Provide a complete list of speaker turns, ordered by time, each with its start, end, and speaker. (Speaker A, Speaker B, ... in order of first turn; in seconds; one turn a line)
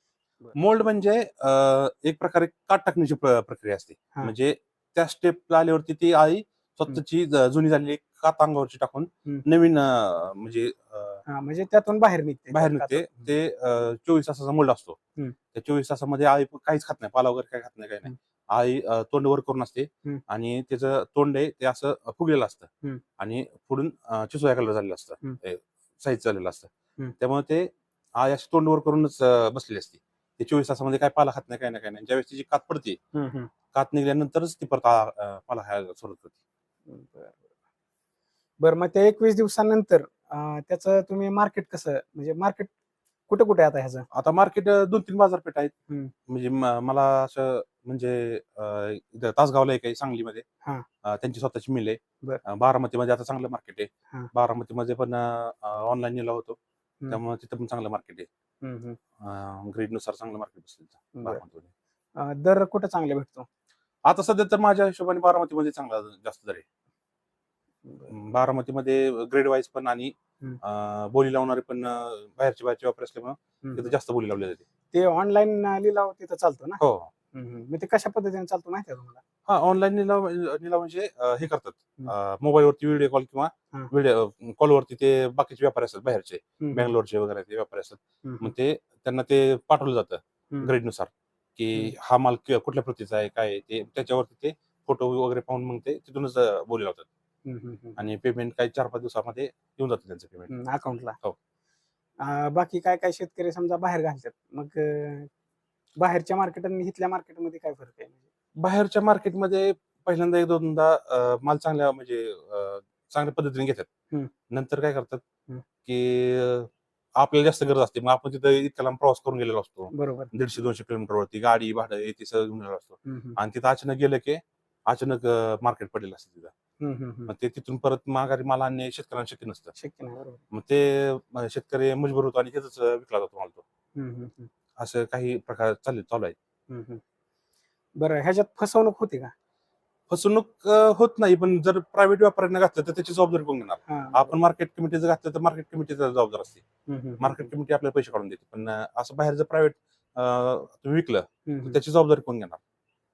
Speaker A: 0.6-11.2
Speaker B: 11.2-13.3
Speaker A: 12.5-15.0
Speaker A: 15.5-22.7
Speaker A: 23.2-33.0
Speaker B: 33.1-33.5
Speaker A: 33.7-36.3
Speaker B: 36.9-37.5
Speaker B: 38.6-42.7
Speaker B: 43.3-44.0
Speaker A: 44.1-45.7
Speaker A: 46.3-50.4
Speaker A: 51.0-56.6
Speaker A: 57.1-58.3
Speaker B: 58.6-59.0
Speaker A: 59.2-61.7
Speaker B: 61.1-61.4
Speaker B: 62.2-63.5
Speaker A: 64.0-66.6
Speaker B: 67.8-68.1
Speaker A: 68.1-74.6
Speaker B: 73.6-73.9
Speaker B: 74.9-76.8
Speaker A: 76.8-77.1
Speaker B: 77.3-79.2
Speaker A: 79.5-97.1
Speaker B: 86.6-86.9
Speaker B: 88.2-88.5
Speaker B: 97.4-98.0
Speaker A: 98.0-100.5
Speaker B: 100.5-101.2
Speaker B: 102.2-105.3
Speaker B: 106.0-108.2
Speaker A: 108.6-113.9
Speaker A: 114.5-115.2
Speaker A: 115.8-126.5
Speaker B: 119.9-120.3
Speaker B: 123.0-123.4
Speaker B: 126.8-127.3
Speaker A: 127.3-129.7
Speaker B: 129.7-130.4
Speaker A: 130.5-133.6
Speaker B: 133.9-134.5
Speaker A: 134.8-136.3
Speaker B: 136.7-137.0
Speaker B: 138.0-139.3
Speaker A: 140.1-146.6
Speaker B: 143.9-144.3
Speaker B: 146.9-147.5
Speaker A: 147.2-152.6
Speaker B: 151.4-151.8